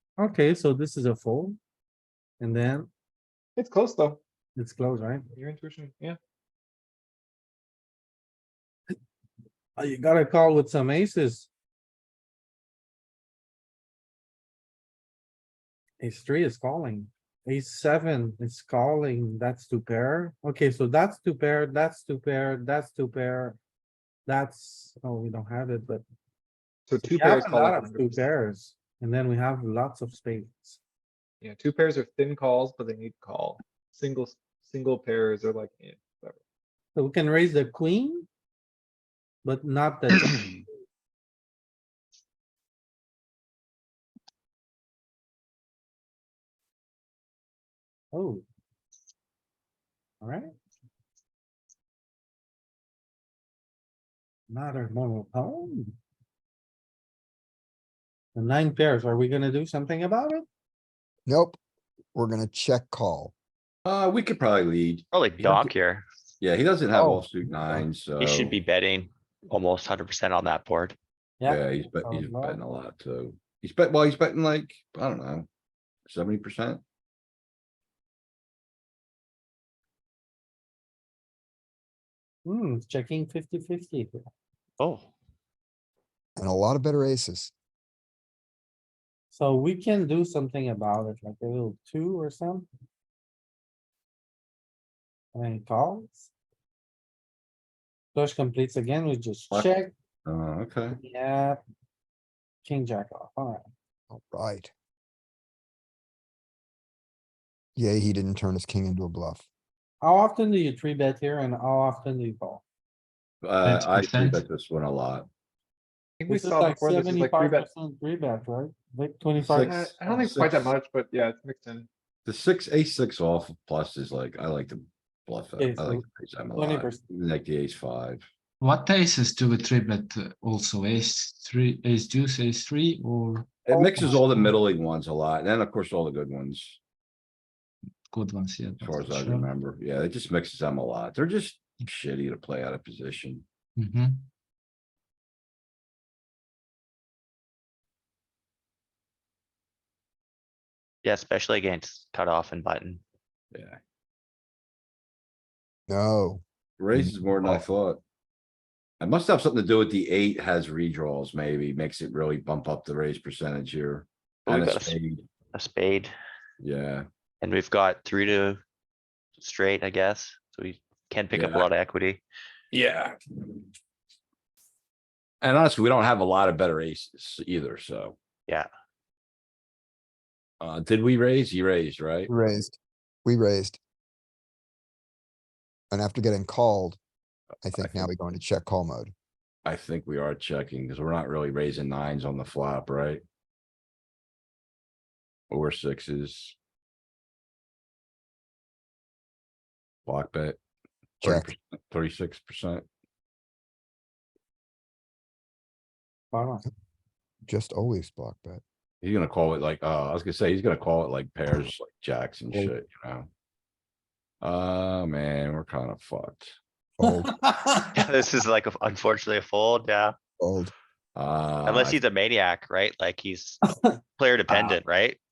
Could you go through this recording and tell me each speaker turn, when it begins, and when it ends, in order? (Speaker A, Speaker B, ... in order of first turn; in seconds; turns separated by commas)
Speaker A: 0.2-1.6, Speaker A: 2.4-2.9, Speaker B: 3.5-4.2, Speaker A: 4.5-5.2, Speaker B: 5.3-6.2, Speaker A: 9.8-11.5, Speaker A: 16.0-23.6, Speaker A: 24.3-26.0, Speaker B: 26.9-28.3, Speaker A: 27.0-30.8, Speaker B: 31.4-36.4, Speaker A: 36.9-38.3, Speaker A: 39.4-40.5, Speaker A: 48.1-48.4, Speaker A: 50.2-50.5, Speaker A: 54.5-56.0, Speaker A: 58.3-60.5, Speaker C: 61.2-61.6, Speaker C: 62.1-63.3, Speaker D: 63.9-65.7, Speaker E: 65.1-66.0, Speaker D: 66.4-68.5, Speaker A: 66.9-67.3, Speaker E: 68.2-71.0, Speaker A: 71.4-72.6, Speaker D: 71.4-75.5, Speaker D: 76.0-76.8, Speaker A: 82.4-84.3, Speaker E: 84.8-85.1, Speaker C: 86.4-87.5, Speaker A: 89.3-92.7, Speaker A: 95.3-96.3, Speaker A: 98.1-99.9, Speaker D: 100.2-100.9, Speaker A: 100.9-101.6, Speaker A: 102.6-103.6, Speaker C: 104.1-104.7, Speaker C: 107.8-109.4, Speaker A: 110.0-112.6, Speaker D: 113.4-115.3, Speaker F: 113.6-114.5, Speaker B: 116.2-117.7, Speaker A: 116.3-119.8, Speaker D: 119.4-120.7, Speaker B: 119.6-121.9, Speaker D: 122.2-128.2, Speaker A: 125.6-127.0, Speaker F: 128.6-134.6, Speaker A: 133.7-134.2, Speaker D: 133.7-136.8, Speaker F: 138.1-139.5, Speaker D: 138.8-143.4, Speaker F: 143.8-144.3, Speaker E: 151.0-153.0, Speaker D: 153.5-153.8, Speaker C: 155.9-156.4, Speaker D: 156.8-158.0, Speaker C: 156.9-157.6, Speaker D: 159.0-165.2, Speaker E: 164.4-165.0, Speaker E: 165.5-166.1, Speaker D: 166.6-167.0, Speaker E: 167.4-168.6, Speaker E: 169.4-172.2, Speaker D: 171.3-171.7, Speaker D: 172.7-173.2, Speaker D: 175.4-178.2, Speaker D: 180.6-182.3, Speaker C: 182.3-183.8, Speaker C: 185.9-187.0, Speaker C: 187.6-189.1, Speaker D: 189.6-193.2, Speaker D: 195.5-196.6, Speaker D: 200.1-200.6, Speaker C: 201.2-201.5, Speaker D: 201.2-202.8, Speaker A: 206.3-206.6, Speaker C: 207.5-208.6, Speaker D: 209.0-213.3, Speaker D: 214.4-216.5, Speaker C: 217.0-217.3, Speaker A: 217.0-218.0, Speaker E: 217.9-220.1, Speaker C: 220.4-220.7, Speaker D: 221.2-222.0, Speaker E: 221.6-223.6, Speaker A: 223.7-224.0, Speaker E: 224.2-225.2